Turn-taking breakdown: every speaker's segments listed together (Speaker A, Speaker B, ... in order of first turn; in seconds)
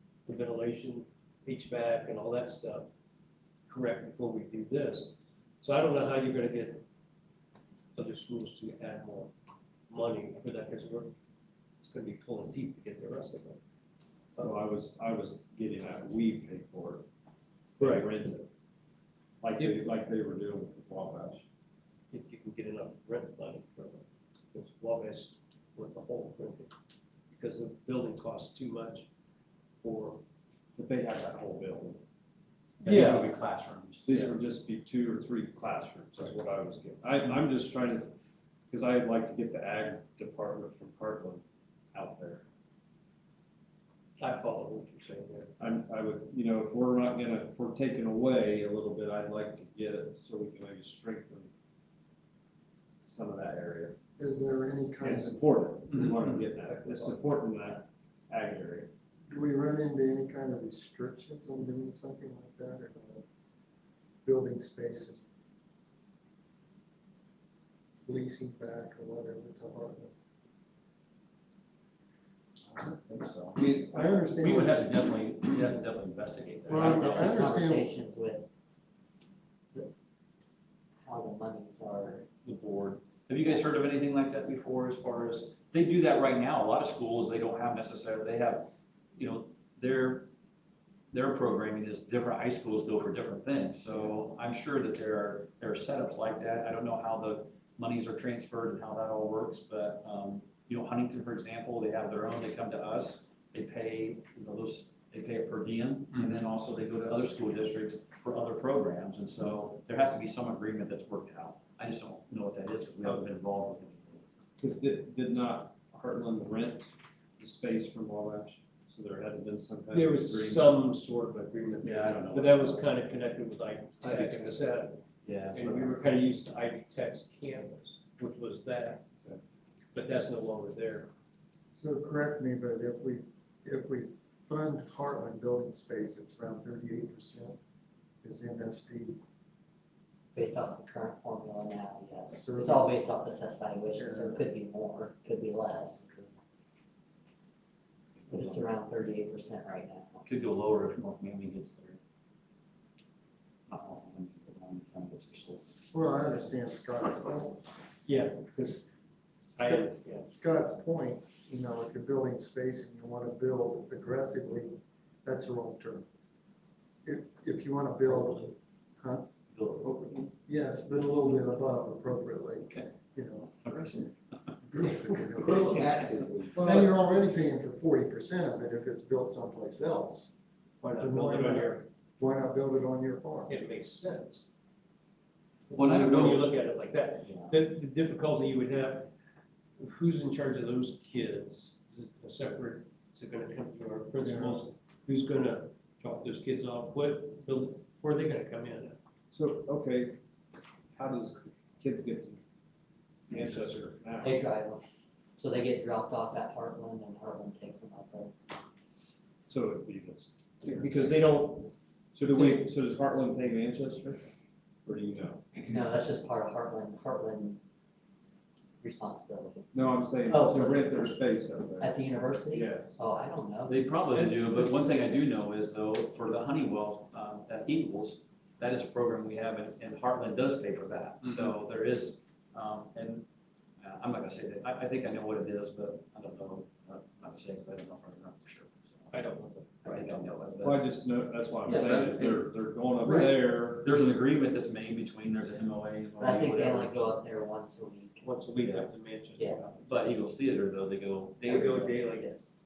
Speaker A: 0.3-2.9, 3.7-5.1, 5.6-6.8, 8.0-9.3, 9.9-11.1, 11.8-13.6, 17.8-18.1, 22.1-26.7, 27.3-29.1, 29.8-30.2, 32.8-33.3, 44.2-45.6, 119.9-129.0, 129.9-131.1, 158.1-158.9, 159.6-160.3, 180.8-181.8, 183.5-184.5, 185.7-189.1, 189.8-199.0, 203.3-203.9, 210.6-211.8, 212.3-212.6, 239.1-240.0, 248.2-249.7, 251.4-252.5
Speaker B: 14.4-17.1, 17.8-18.5, 19.4-21.4, 30.8-32.0, 34.1-38.2, 38.7-42.5, 45.6-51.5, 53.0-54.0, 55.0-58.9, 73.6-74.1, 114.6-120.7, 176.6-176.9, 199.3-200.2, 200.9-202.4, 203.3-204.4, 209.5-211.1, 212.1-214.3, 214.8-215.5, 219.7-223.0, 240.6-243.9
Speaker C: 32.8-34.3, 72.7-73.6, 74.4-77.5, 82.4-90.3, 91.1-114.2, 121.8-122.9, 124.0-124.6, 125.2-126.0, 148.3-148.6, 150.2-152.0, 153.7-155.7, 168.0-168.5, 169.5-170.3, 173.6-174.2, 175.7-176.5, 185.7-186.5, 187.2-187.6, 223.7-233.3, 233.8-239.2, 239.8-240.8, 241.7-242.5, 243.0-247.2, 248.6-248.9, 249.7-252.0
Speaker D: 54.2-55.5, 59.3-63.2, 64.2-65.3, 68.1-70.1, 73.6-74.9, 76.7-77.9, 131.7-137.6, 138.2-139.2, 142.3-143.0, 143.9-144.4, 155.9-157.7, 159.6-166.1, 167.0-169.3, 170.5-173.6, 174.7-180.3, 181.0-183.5, 194.2-194.6
Speaker E: 76.7-78.5, 81.0-82.3, 140.3-146.1, 148.3-150.2, 204.2-204.8, 205.4-208.3, 215.7-217.6, 218.8-219.7, 220.2-221.2, 221.8-224.2, 246.2-248.3, 249.4-249.6, 251.6-252.4